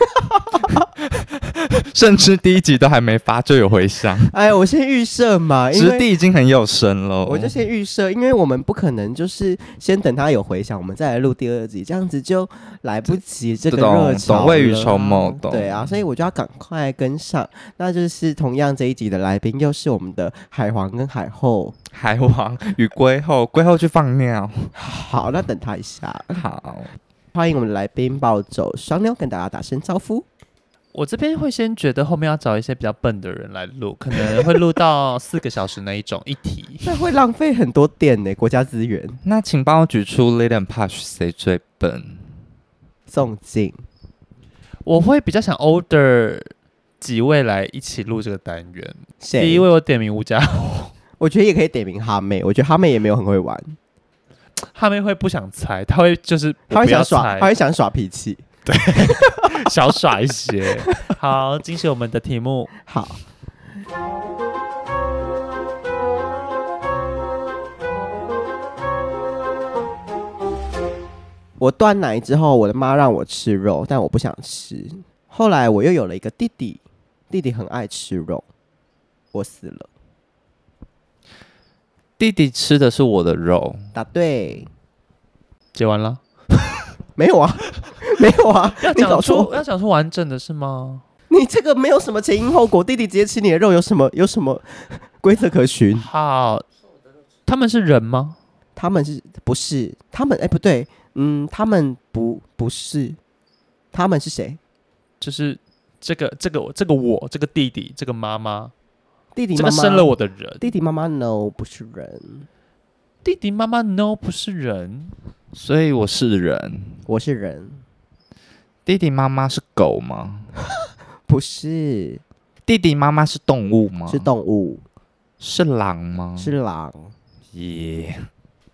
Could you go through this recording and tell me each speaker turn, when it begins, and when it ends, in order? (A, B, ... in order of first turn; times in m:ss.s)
0:00.2-0:00.8 A
0:01.5-0:04.3 B
0:04.3-0:06.1 A
0:05.7-0:07.5 B
0:07.2-0:21.8 A
0:13.7-0:15.9 B
0:21.9-0:24.7 B
0:24.8-0:26.4 A
0:26.3-0:26.9 B
0:27.3-0:30.3 A
0:30.9-0:36.9 C
0:36.8-0:39.2 A
0:39.2-0:42.2 B
0:43.1-0:43.8 A
0:44.8-0:50.9 C
0:49.2-0:49.7 A
0:51.2-0:53.8 A
0:54.7-0:57.5 C
0:56.7-0:58.4 A
0:58.7-1:02.7 C
1:02.9-1:03.2 A
1:11.6-1:18.4 A
1:19.3-1:19.9 A
1:22.2-1:23.8 B
1:23.9-1:24.7 A
1:25.8-1:26.2 C
1:27.2-1:29.6 A
1:28.8-1:31.0 C
1:31.3-1:36.1 A
1:36.0-1:36.7 C
1:37.5-1:38.4 C
1:38.8-1:43.2 A
1:43.9-1:44.6 A
1:45.2-1:48.7 C
1:49.4-1:52.5 A
1:49.6-1:50.7 C
1:53.2-1:55.2 C
1:55.5-1:57.0 B
1:57.1-1:57.8 A
1:58.9-2:00.5 B
2:01.3-2:02.2 A
2:02.7-2:04.3 B
2:04.1-2:04.8 A
2:05.4-2:06.5 B
2:06.4-2:07.1 A
2:07.5-2:08.2 B